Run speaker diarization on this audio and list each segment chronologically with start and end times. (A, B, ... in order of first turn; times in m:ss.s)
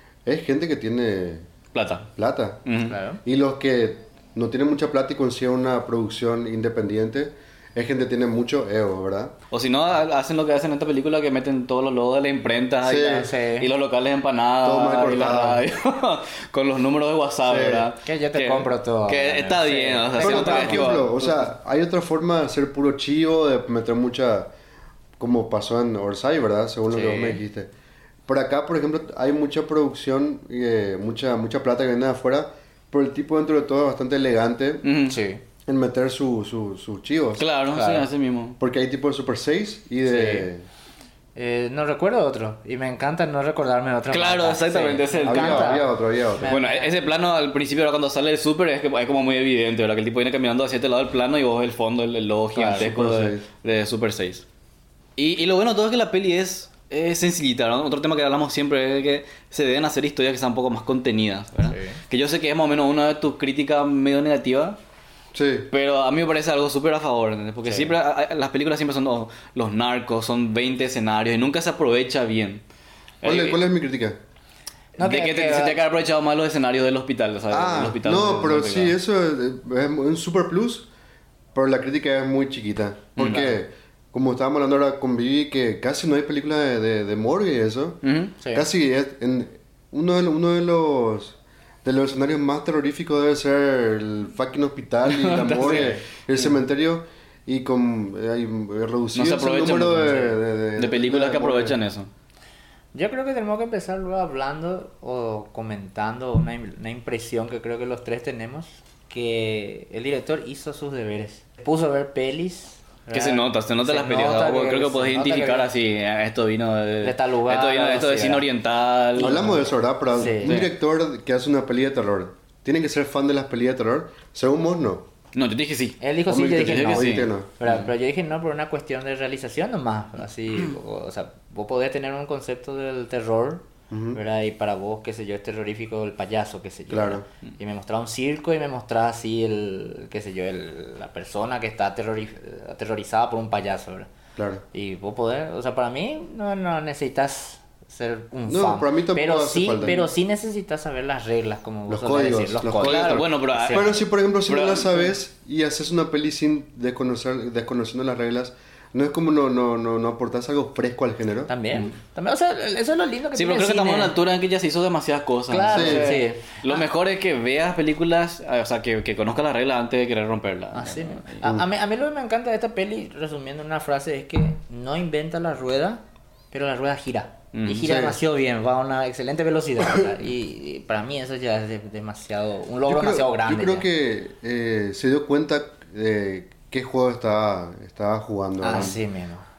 0:00.3-0:01.5 A
0:01.7-0:02.1 B
0:02.2-0:02.6 A
0:02.7-0:03.0 B
0:02.8-0:03.2 C
0:03.2-0:09.3 A
0:09.5-0:21.4 B
0:12.9-0:13.3 A
0:12.9-0:13.7 C
0:14.6-0:15.6 A
0:17.5-0:17.9 A
0:18.0-0:21.0 C
0:20.2-0:24.5 A
0:25.2-0:27.7 A
0:26.9-0:27.4 C
0:28.3-0:34.8 A
0:34.8-0:35.2 B
0:35.1-0:35.4 C
0:35.7-0:37.5 A
0:37.4-0:38.6 B
0:37.7-0:38.0 C
0:38.6-0:40.6 A
0:40.0-0:40.5 C
0:41.4-0:46.9 C
0:44.1-0:45.8 B
0:45.2-0:46.5 A
0:46.5-0:54.4 B
0:52.6-0:52.9 C
0:52.7-0:53.4 A
0:55.2-1:04.8 B
1:01.7-1:02.0 C
1:05.3-1:05.7 A
1:05.7-1:12.6 B
1:07.7-1:08.0 C
1:13.2-1:13.6 B
1:13.2-1:14.2 A
1:15.0-1:15.8 C
1:15.0-1:18.9 B
1:17.5-1:20.9 A
1:21.6-1:28.0 A
1:23.2-1:23.5 B
1:28.0-1:28.3 B
1:28.4-1:28.7 C
1:28.5-1:41.8 A
1:35.1-1:35.9 B
1:35.6-1:36.0 C
1:39.2-1:42.1 B
1:42.9-1:55.7 C
1:53.1-1:59.4 B
1:57.0-1:58.4 C
1:59.2-2:00.6 C
1:59.2-2:05.0 A
2:00.4-2:00.7 B
2:05.3-2:07.9 B
2:06.0-2:24.1 C
2:06.3-2:07.5 A
2:13.9-2:14.2 A
2:16.9-2:17.2 A
2:24.4-2:24.6 A
2:24.7-2:33.9 C
2:28.5-2:30.1 A
2:31.9-2:41.5 A
2:32.8-2:35.1 B
2:41.5-2:44.2 C
2:43.4-2:51.4 B
2:45.5-2:46.8 C
2:45.7-2:46.1 A
2:50.7-3:03.9 C
2:57.5-2:57.9 B
2:57.8-2:58.2 A
3:02.9-3:09.0 A
3:08.6-3:09.5 C